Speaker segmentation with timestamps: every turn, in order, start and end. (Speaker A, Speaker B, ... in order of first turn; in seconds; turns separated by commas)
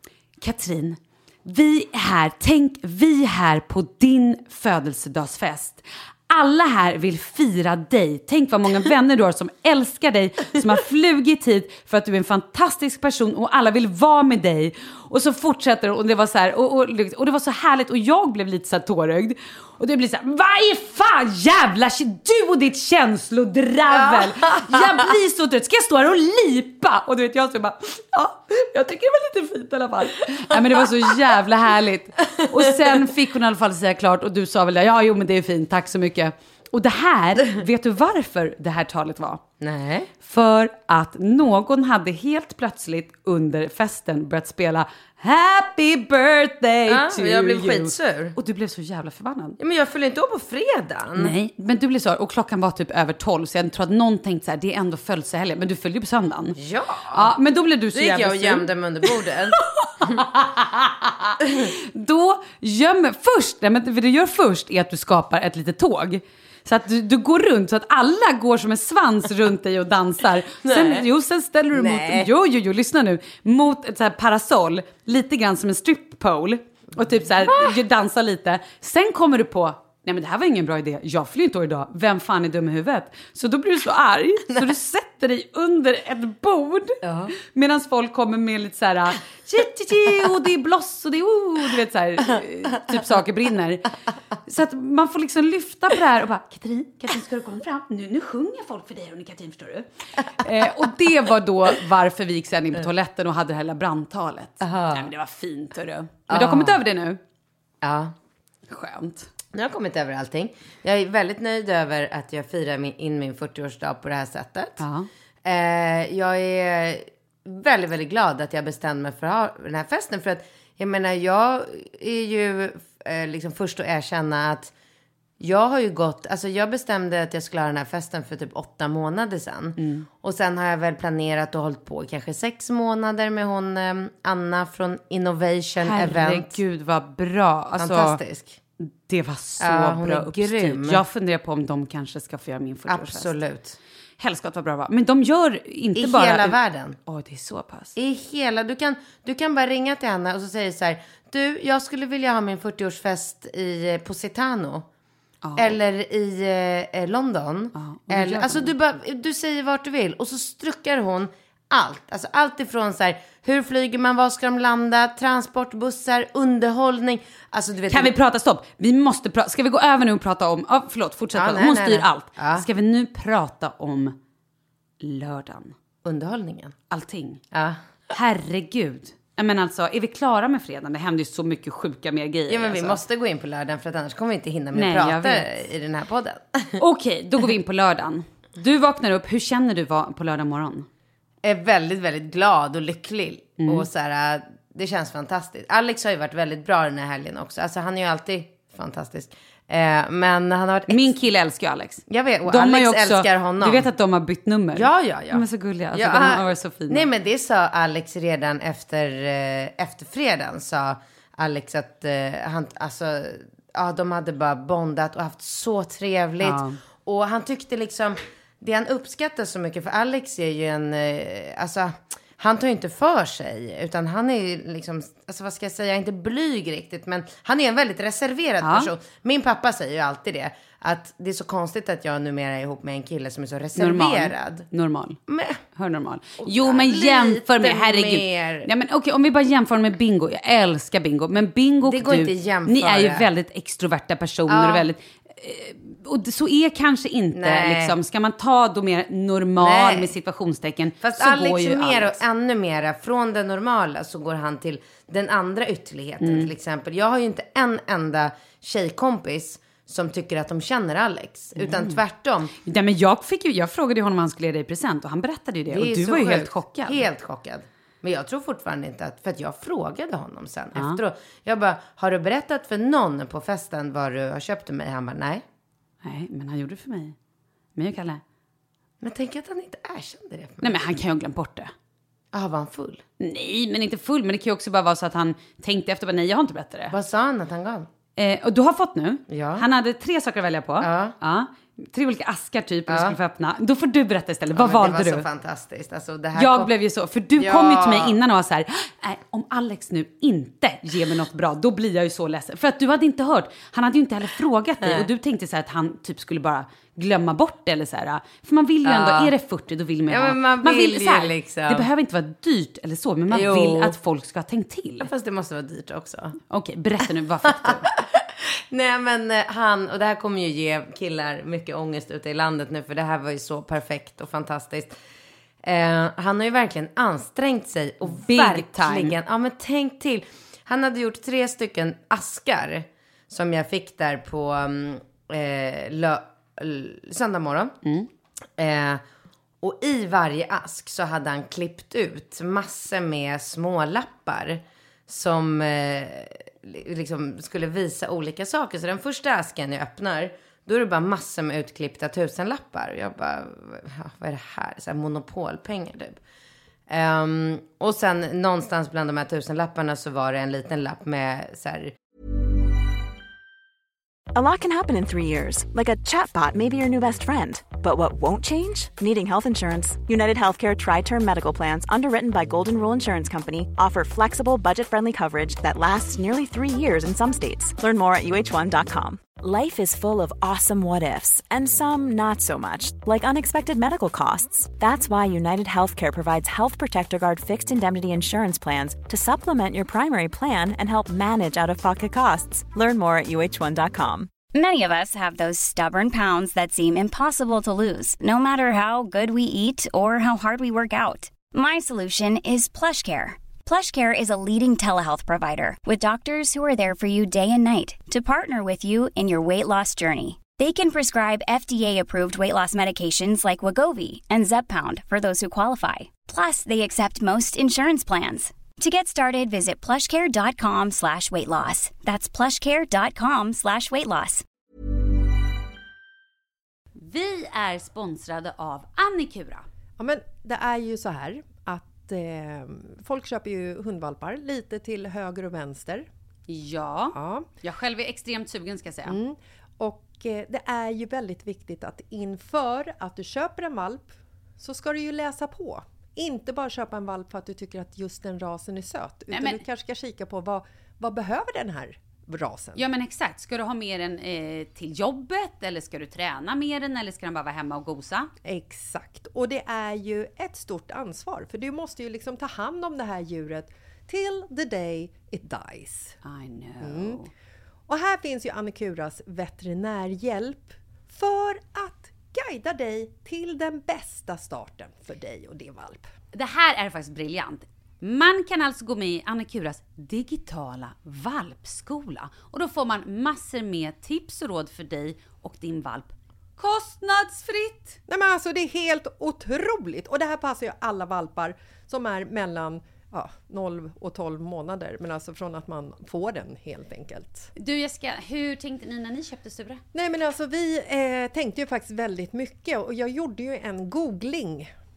Speaker A: 0.4-39.4, Speaker B: 23.9-24.8, Speaker B: 39.6-40.1, Speaker A: 40.2-49.6, Speaker B: 46.9-48.4, Speaker B: 49.6-51.3, Speaker A: 51.1-56.6, Speaker B: 56.6-57.3, Speaker A: 57.1-93.9, Speaker B: 57.9-60.2, Speaker B: 70.6-71.0, Speaker B: 71.7-72.3, Speaker B: 77.5-77.7, Speaker B: 87.0-87.3, Speaker A: 94.5-107.2, Speaker B: 104.6-105.1, Speaker B: 106.3-106.8, Speaker B: 107.8-108.1, Speaker A: 108.7-109.3, Speaker B: 109.5-114.8, Speaker A: 114.8-115.1, Speaker B: 115.4-124.7, Speaker B: 125.4-136.6, Speaker A: 129.8-130.1, Speaker A: 135.8-138.2, Speaker B: 137.8-138.6, Speaker A: 138.8-143.3, Speaker B: 139.6-141.0, Speaker B: 142.9-143.8, Speaker A: 144.2-147.9, Speaker B: 145.9-147.0, Speaker B: 147.9-154.8, Speaker A: 155.4-155.8, Speaker B: 155.6-168.1, Speaker A: 157.7-158.7, Speaker A: 167.9-174.1, Speaker B: 171.3-172.6, Speaker A: 175.0-175.7, Speaker B: 176.0-176.7, Speaker A: 176.9-177.4, Speaker B: 177.5-177.8, Speaker A: 178.1-183.0, Speaker B: 182.5-186.8, Speaker A: 184.7-185.4, Speaker A: 186.8-190.8, Speaker B: 191.4-201.1, Speaker A: 193.6-193.8, Speaker A: 200.9-207.1, Speaker B: 202.1-203.8, Speaker B: 204.7-205.4, Speaker B: 205.9-234.7, Speaker A: 216.4-216.8, Speaker A: 228.6-228.9, Speaker A: 233.8-235.2, Speaker B: 235.3-235.6, Speaker A: 235.7-252.2, Speaker B: 236.4-238.7, Speaker B: 241.8-243.3, Speaker B: 244.5-244.9, Speaker B: 247.3-247.9, Speaker B: 249.6-250.1, Speaker B: 251.0-262.5, Speaker A: 256.2-256.5, Speaker A: 261.6-262.0, Speaker A: 262.6-267.0, Speaker B: 265.7-275.4, Speaker A: 276.0-277.1, Speaker A: 277.8-278.2, Speaker B: 279.0-280.8, Speaker A: 280.6-281.7, Speaker B: 282.3-283.0, Speaker A: 283.2-286.9, Speaker B: 286.9-287.9, Speaker A: 288.2-295.2, Speaker B: 289.3-289.6, Speaker B: 290.8-291.1, Speaker B: 292.9-293.1, Speaker B: 294.5-296.7, Speaker A: 296.4-315.1, Speaker B: 297.4-298.2, Speaker B: 308.8-309.3, Speaker B: 310.1-311.9, Speaker B: 313.3-313.9, Speaker B: 315.0-316.4, Speaker A: 316.5-317.9, Speaker B: 317.6-324.9, Speaker B: 325.6-337.7, Speaker A: 328.1-329.1, Speaker B: 338.6-339.0, Speaker B: 339.6-356.2, Speaker B: 356.9-361.9, Speaker C: 364.3-394.3, Speaker D: 394.5-424.4, Speaker A: 426.9-429.7, Speaker E: 430.0-436.1, Speaker A: 436.5-439.2, Speaker E: 437.1-437.5, Speaker E: 439.1-452.8, Speaker A: 449.3-449.6, Speaker A: 452.8-458.3, Speaker E: 458.4-466.2, Speaker A: 466.2-467.3, Speaker E: 466.8-467.2, Speaker E: 467.9-476.1, Speaker A: 476.3-488.0, Speaker E: 488.1-497.5, Speaker A: 497.6-499.8, Speaker E: 499.9-504.7